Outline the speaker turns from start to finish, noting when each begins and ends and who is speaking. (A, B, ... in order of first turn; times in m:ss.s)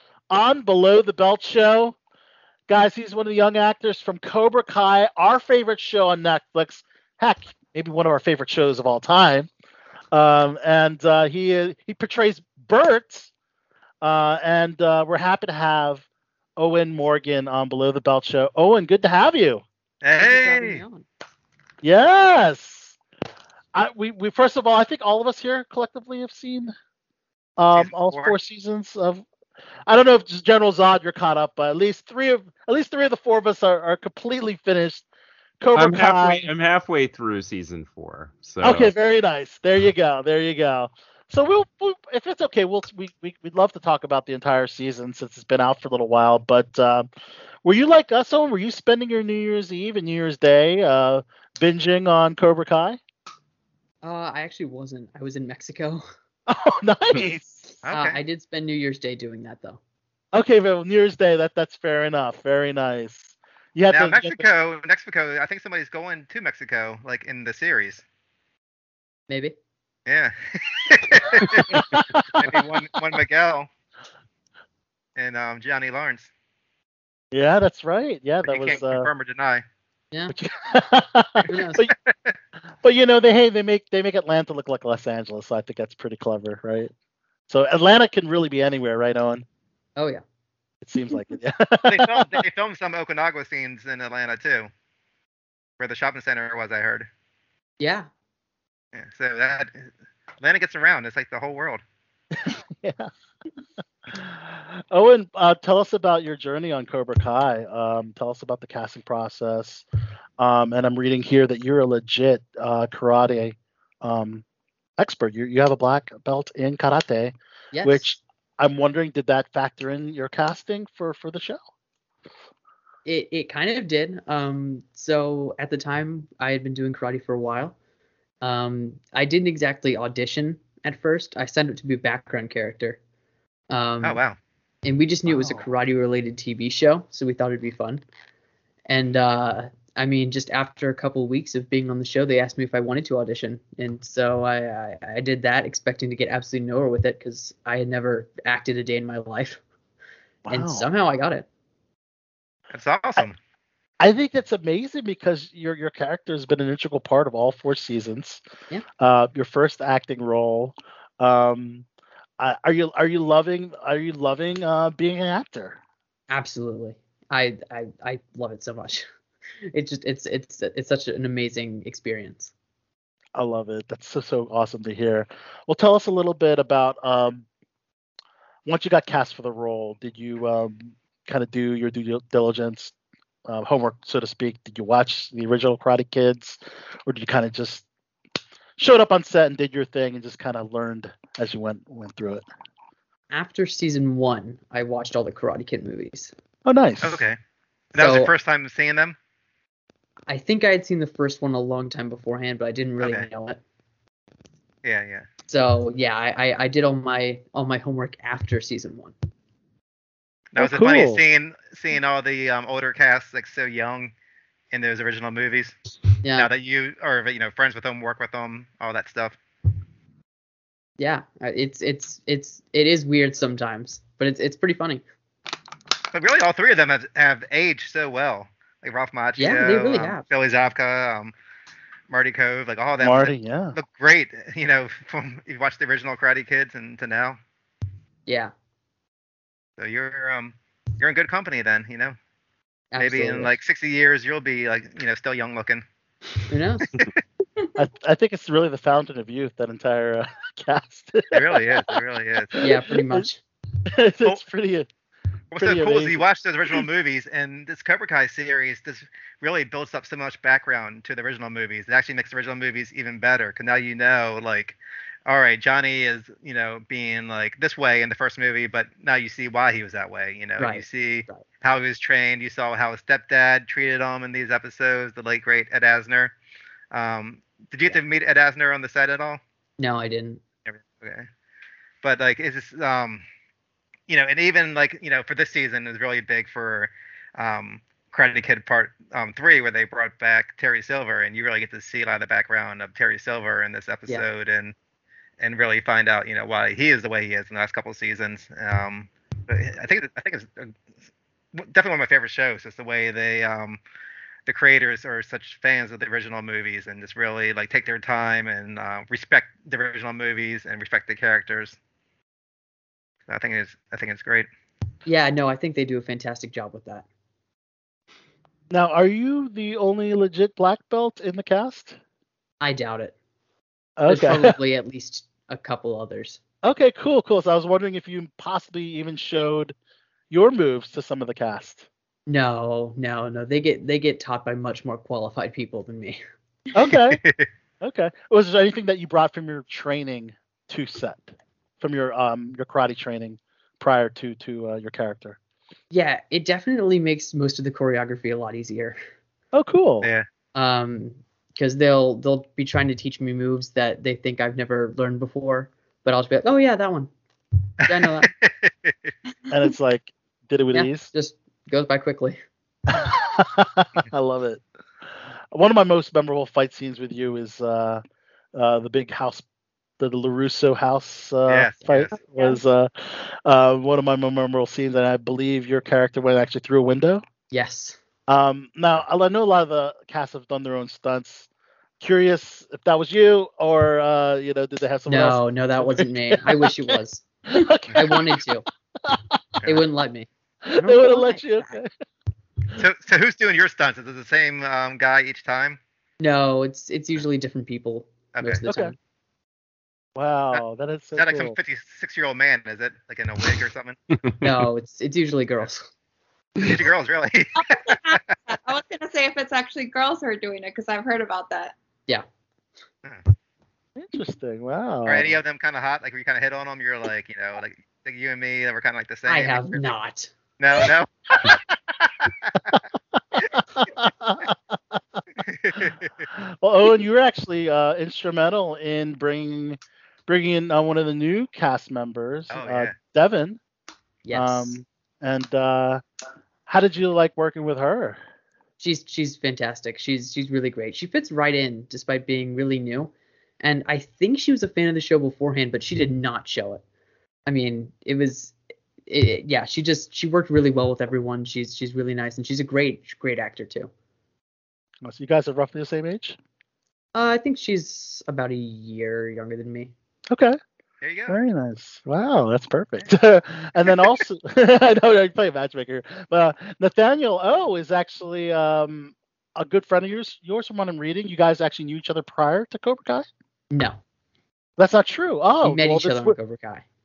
0:00.3-0:02.0 A
0:02.7-0:09.5 A
0:10.1-0:13.3 A
0:14.0-0:16.0 A
0:16.6-0:19.6 A
0:20.0-0:20.8 B
0:20.2-0:21.0 C
0:21.8-0:23.0 A
0:23.7-0:26.7 A
0:27.6-0:29.2 A
0:27.7-0:28.3 B
0:29.9-0:35.0 A
0:35.6-0:36.5 A
0:35.8-0:38.9 D
0:38.6-0:47.1 A
0:47.6-0:53.0 A
0:54.0-0:56.0 C
0:56.5-0:57.7 A
0:57.8-0:58.2 B
0:57.9-0:59.8 C
1:00.3-1:04.4 A
1:03.9-1:08.0 B
1:09.3-1:09.6 C
1:10.0-1:13.7 B
1:11.4-1:12.8 A
1:15.2-1:16.3 B
1:17.3-1:19.1 A
1:18.4-1:19.6 B
1:20.3-1:21.9 A
1:21.5-1:21.8 C
1:21.9-1:22.3 B
1:22.8-1:26.9 A
1:27.5-1:29.4 A
1:30.0-1:30.2 C
1:30.8-1:32.4 A
1:31.8-1:34.7 B
1:35.8-1:37.1 B
1:37.8-1:38.1 C
1:38.9-1:39.9 B
1:40.4-1:41.8 B
1:42.4-1:43.1 A
1:44.1-1:49.8 A
1:50.4-1:54.4 A
1:55.0-2:01.6 A
1:57.7-1:58.1 C
2:03.0-2:07.7 C
2:08.4-2:13.0 C
2:13.7-2:14.2 C
2:14.0-2:14.4 B
2:14.8-2:18.0 C
2:15.3-2:15.7 A
2:18.9-2:29.6 C
2:30.4-2:30.9 A
2:30.5-2:31.4 C
2:32.7-2:33.4 B
2:34.0-2:38.4 A
2:39.0-2:41.8 A
2:42.4-2:45.8 A
2:46.3-2:49.1 C
2:49.7-2:52.5 C
2:53.4-2:57.4 A
2:58.7-3:02.9 A
3:03.5-3:07.8 A
3:08.8-3:12.4 A
3:13.3-3:16.3 C
3:16.6-3:17.2 A
3:17.0-3:17.4 B
3:17.9-3:19.2 B
3:18.0-3:18.3 C
3:20.3-3:23.6 C
3:23.0-3:23.2 B
3:24.8-3:25.3 B
3:25.5-3:29.1 C
3:30.5-3:34.1 B
3:30.6-3:31.2 A
3:34.7-3:35.8 B
3:36.2-3:36.5 C
3:36.3-3:39.4 B
3:41.0-3:45.0 C
3:46.1-3:51.3 B
3:49.4-3:50.2 C
3:52.1-3:57.4 B
3:53.0-3:53.8 A
3:58.3-3:58.5 C
3:59.8-4:02.2 B
4:02.9-4:03.5 C
4:03.0-4:05.8 B
4:06.5-4:07.0 C
4:06.9-4:07.2 B
4:07.8-4:11.6 A
4:11.3-4:12.6 B
4:12.5-4:13.2 A
4:12.6-4:13.4 C
4:13.8-4:14.9 A
4:15.5-4:36.3 B
4:15.6-4:16.8 A
4:30.6-4:31.4 C
4:36.9-4:39.4 B
4:39.8-4:40.4 C
4:40.6-4:41.3 B
4:42.0-4:43.2 B
4:44.1-4:54.8 B
4:55.4-5:00.7 B
5:01.5-5:03.8 B
5:04.4-5:11.8 B
5:13.3-5:14.5 B
5:15.0-5:17.0 C
5:18.7-5:22.0 A
5:22.6-5:23.1 C
5:24.0-5:24.5 A
5:24.1-5:26.4 C
5:26.6-5:29.7 A
5:30.3-5:31.8 A
5:32.3-5:36.2 C
5:36.8-5:37.2 A
5:37.1-5:37.5 B
5:37.8-5:45.4 A
5:45.9-5:49.0 C
5:49.5-5:50.1 A
5:50.0-5:50.3 B
5:50.5-5:57.1 C
5:57.8-5:58.3 C
5:57.8-5:59.1 B
5:59.5-6:01.1 A
6:00.7-6:02.4 C
6:02.9-6:04.6 A
6:05.5-6:08.0 A
6:08.5-6:09.4 A
6:10.0-6:17.2 A
6:11.5-6:12.1 B
6:17.5-6:18.0 C
6:18.3-6:21.5 A
6:22.0-6:28.4 A
6:25.1-6:27.2 C
6:27.9-6:28.6 C
6:29.0-6:29.4 A
6:29.6-6:31.8 C
6:30.6-6:31.9 A
6:32.8-6:35.8 B
6:36.2-6:38.9 C
6:38.3-6:38.6 B
6:38.6-6:38.9 A
6:40.2-6:41.6 A
6:41.2-6:44.0 B
6:44.4-6:45.9 C
6:46.6-6:48.2 B
6:47.6-6:51.8 E
6:54.0-6:55.4 A
6:55.1-6:59.9 B
6:59.2-7:00.3 C
7:00.6-7:02.6 B
7:03.8-7:05.0 A
7:05.4-7:06.3 B
7:06.3-7:13.6 A
7:12.5-7:12.9 B
7:14.2-7:14.8 C
7:14.3-7:16.0 A
7:16.7-7:18.2 A
7:18.8-7:26.8 C
7:27.5-7:28.5 C
7:29.1-7:33.9 C
7:35.0-7:36.4 A
7:37.1-7:39.9 C
7:40.3-7:40.6 A
7:41.0-7:41.4 B
7:41.3-7:53.3 A
7:53.7-7:54.0 C
7:54.8-7:56.3 A
7:55.6-7:56.8 C